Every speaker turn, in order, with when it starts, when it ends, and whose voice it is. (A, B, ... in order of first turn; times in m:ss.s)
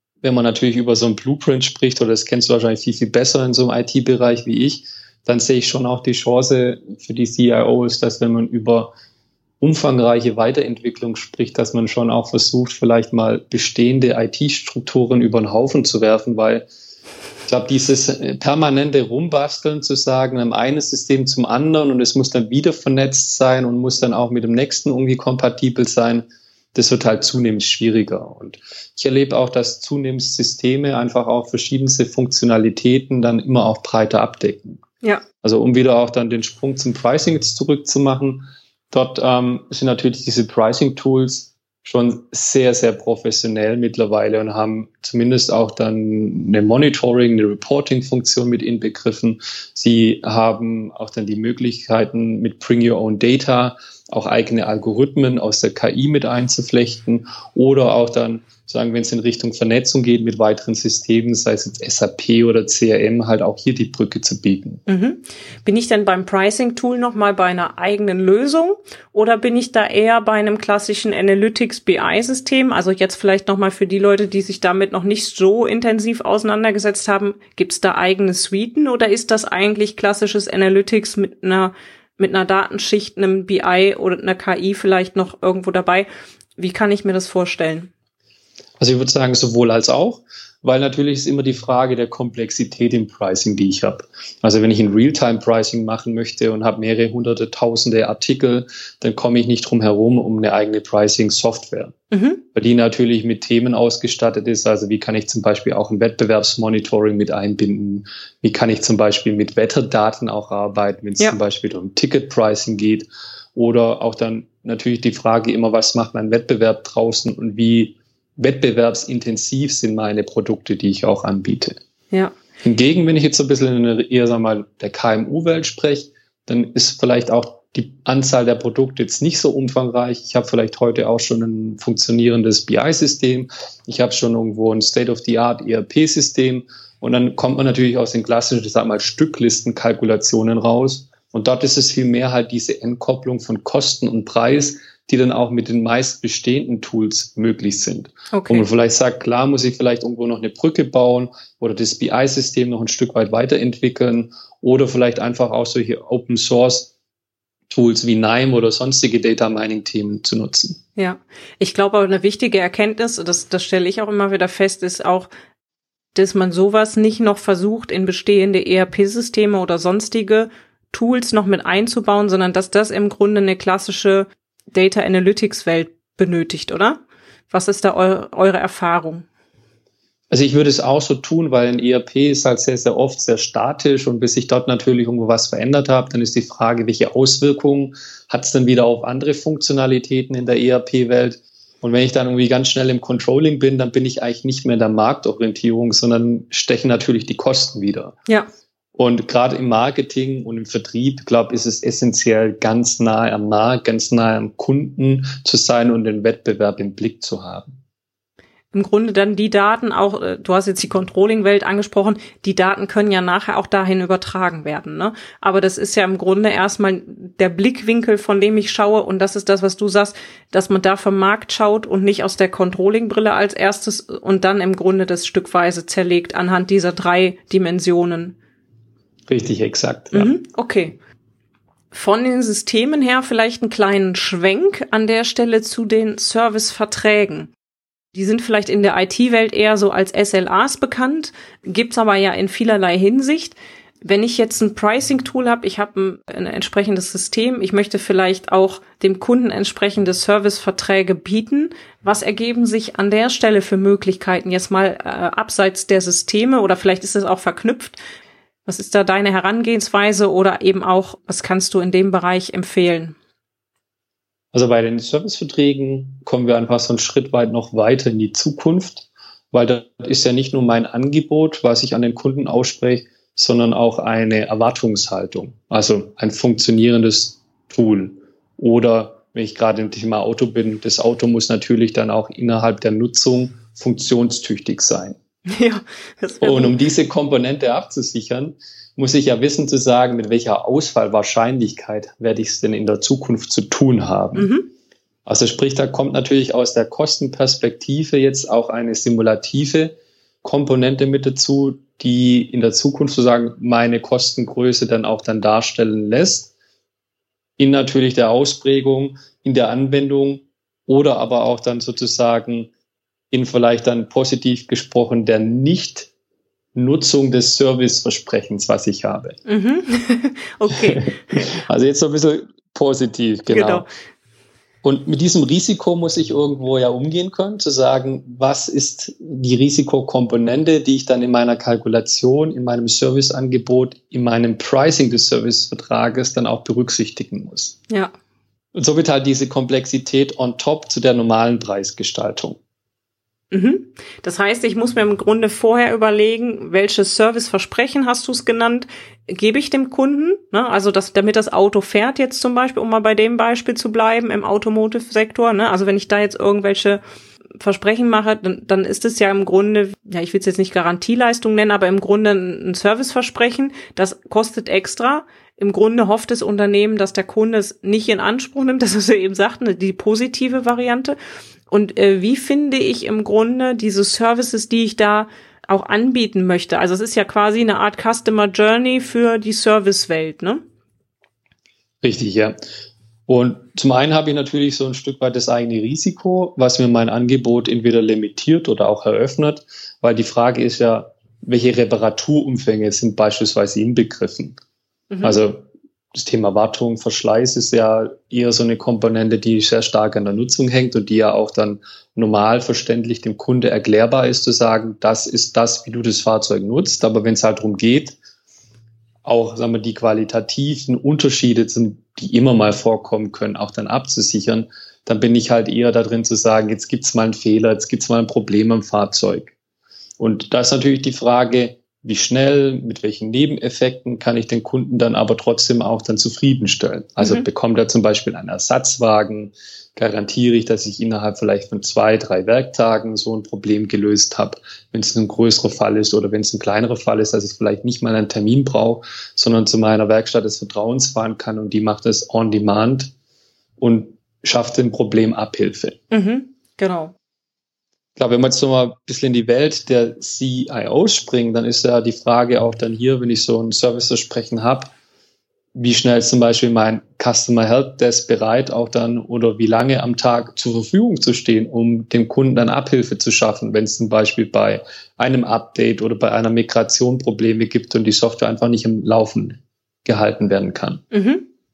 0:00.2-0:08.9 A
0:09.6-0:16.6 A
0:17.5-0:34.8 A
0:35.4-1:04.8 A
1:04.9-1:27.9 B
1:28.8-1:41.9 A
1:42.1-1:42.4 B
1:42.5-2:01.8 A
2:02.6-2:36.9 A
2:28.3-2:28.6 B
2:37.7-2:40.8 A
2:41.0-2:45.3 B
2:46.1-2:59.2 B
3:00.3-3:18.2 A
3:18.9-3:27.8 A
3:28.7-3:48.4 B
3:49.3-3:50.3 A
3:50.1-3:51.0 B
3:51.9-3:57.5 B
3:58.1-4:18.0 B
4:18.7-4:23.2 B
4:24.5-4:45.2 A
4:45.5-4:46.8 B
4:46.4-4:54.5 A
4:54.4-4:54.7 B
4:55.2-5:06.5 A
5:07.6-5:12.7 A
5:13.3-5:16.1 A
5:16.7-5:19.4 A
5:19.4-5:21.5 B
5:20.9-5:23.9 A
5:23.5-5:23.9 B
5:24.8-5:37.8 A
5:38.7-5:42.6 A
5:43.5-5:57.0 B
5:57.6-6:11.2 B
6:11.7-6:20.6 B
6:22.0-6:22.6 A
6:23.3-6:34.6 A
6:35.1-6:35.4 B
6:35.2-6:48.2 A
6:49.2-6:59.5 A
7:00.2-7:23.1 A
7:07.2-7:07.4 B
7:23.8-7:26.0 A
7:26.1-7:27.1 B
7:28.2-7:34.9 A
7:35.7-7:51.0 A
7:51.1-7:51.4 B